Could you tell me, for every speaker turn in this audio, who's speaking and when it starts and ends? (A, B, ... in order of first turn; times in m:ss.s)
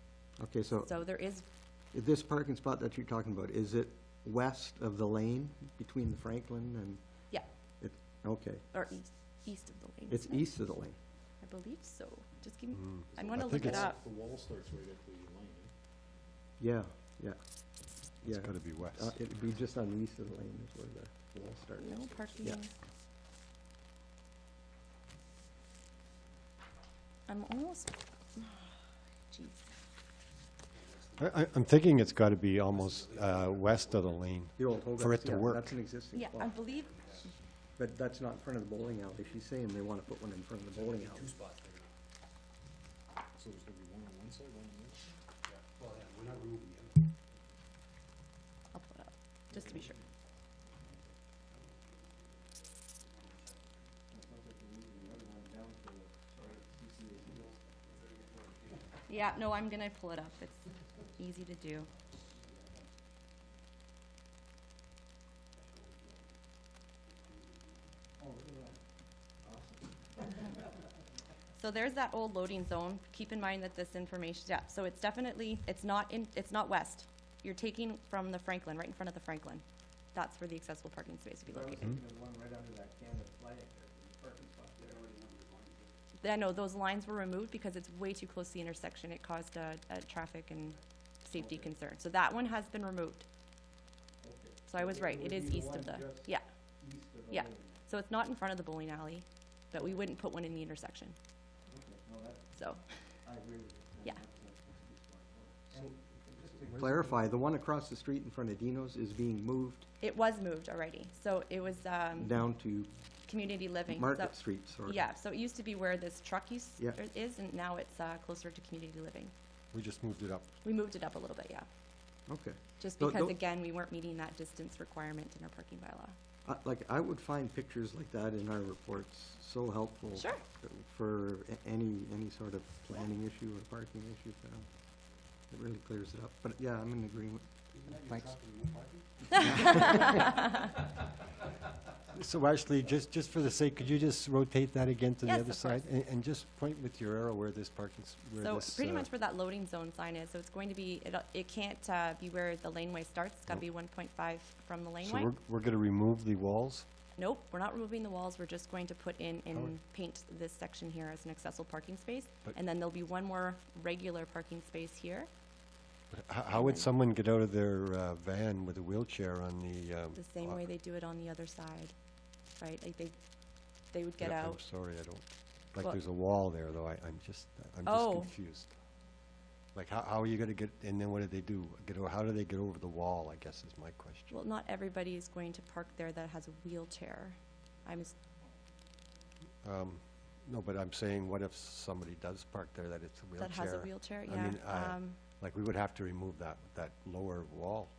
0:00.4-0:01.0 A
0:00.8-0:01.4 B
0:01.9-0:07.0 A
0:07.8-0:08.6 A
0:08.7-0:10.5 B
0:10.1-0:11.0 A
0:11.4-0:14.0 B
0:12.7-0:13.9 C
0:13.1-0:15.7 D
0:16.6-0:17.4 A
0:18.2-0:22.6 A
0:18.2-0:19.2 C
0:21.3-0:22.2 D
0:21.8-0:22.7 B
0:27.3-0:28.7 B
0:29.3-0:29.7 B
0:31.2-0:35.7 C
0:34.6-0:36.6 A
0:36.1-0:37.3 B
0:37.8-0:41.4 A
0:41.3-0:41.8 D
0:43.4-0:47.0 D
0:48.7-0:50.0 B
0:54.1-0:57.6 A
0:59.1-1:01.9 B
1:08.2-1:08.8 A
1:09.4-1:09.8 A
1:11.6-1:19.6 B
1:20.1-1:22.0 B
1:21.5-1:25.1 A
1:25.2-1:25.7 D
1:26.2-1:33.3 B
1:31.4-1:31.7 A
1:34.2-1:36.3 A
1:34.7-1:36.4 B
1:36.8-1:37.8 A
1:37.3-1:41.2 B
1:41.7-1:42.4 A
1:42.6-1:42.8 B
1:43.3-1:49.9 A
1:50.0-1:52.4 B
1:52.2-1:52.9 A
1:53.3-1:59.3 B
1:53.9-1:55.0 A
1:59.7-2:00.5 C
2:00.6-2:01.7 B
2:02.3-2:03.4 A
2:02.8-2:06.2 B
2:06.5-2:14.7 A
2:10.2-2:10.4 B
2:15.5-2:17.5 A
2:17.8-2:20.8 D
2:19.4-2:20.7 B
2:22.1-2:29.1 C
2:25.2-2:25.8 B
2:28.4-2:35.3 B
2:35.0-2:36.9 C
2:37.2-2:45.3 B
2:46.1-2:50.6 C
2:46.5-2:46.9 B
2:50.2-2:51.9 B
2:52.6-2:53.2 B
2:53.9-2:54.6 B
2:54.2-2:58.7 C
2:57.9-2:58.3 B
2:59.8-3:04.4 C
3:04.3-3:08.2 B
3:09.6-3:17.9 C
3:13.4-3:15.2 B